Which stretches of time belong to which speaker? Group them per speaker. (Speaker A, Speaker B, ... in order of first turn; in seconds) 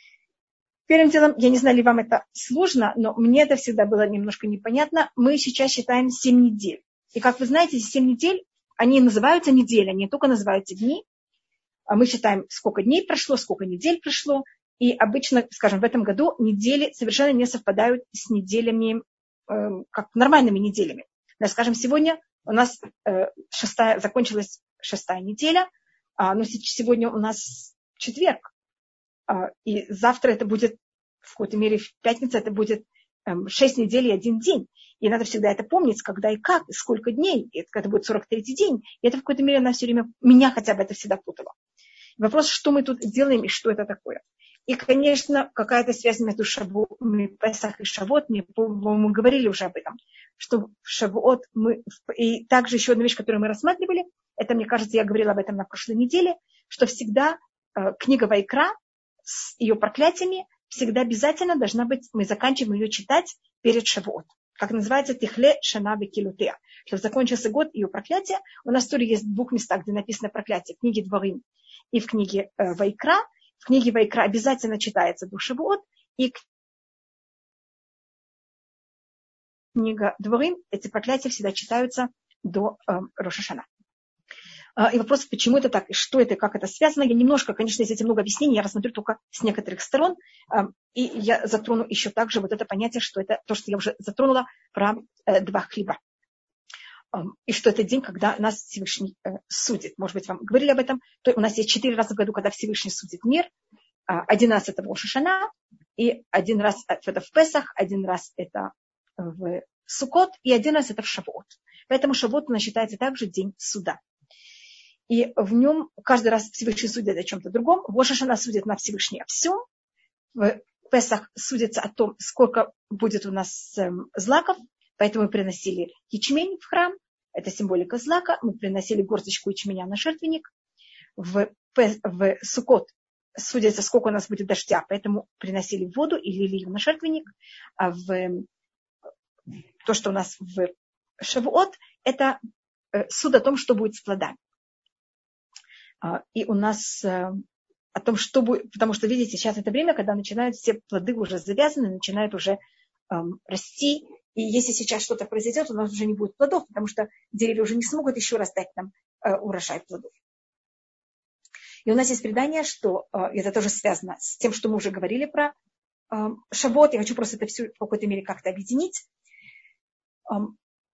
Speaker A: 0.9-11.0, 11.9-28.5, 29.3-41.5, 42.2-58.7, 59.2-76.4, 79.7-83.7, 84.8-96.0, 97.1-103.5, 104.1-114.0, 115.1-119.6, 120.3-130.5, 131.2-138.4, 139.8-142.4, 142.9-144.4, 146.0-147.4, 147.9-152.6, 153.1-160.1, 161.8-165.5, 166.1-169.0, 170.3-170.5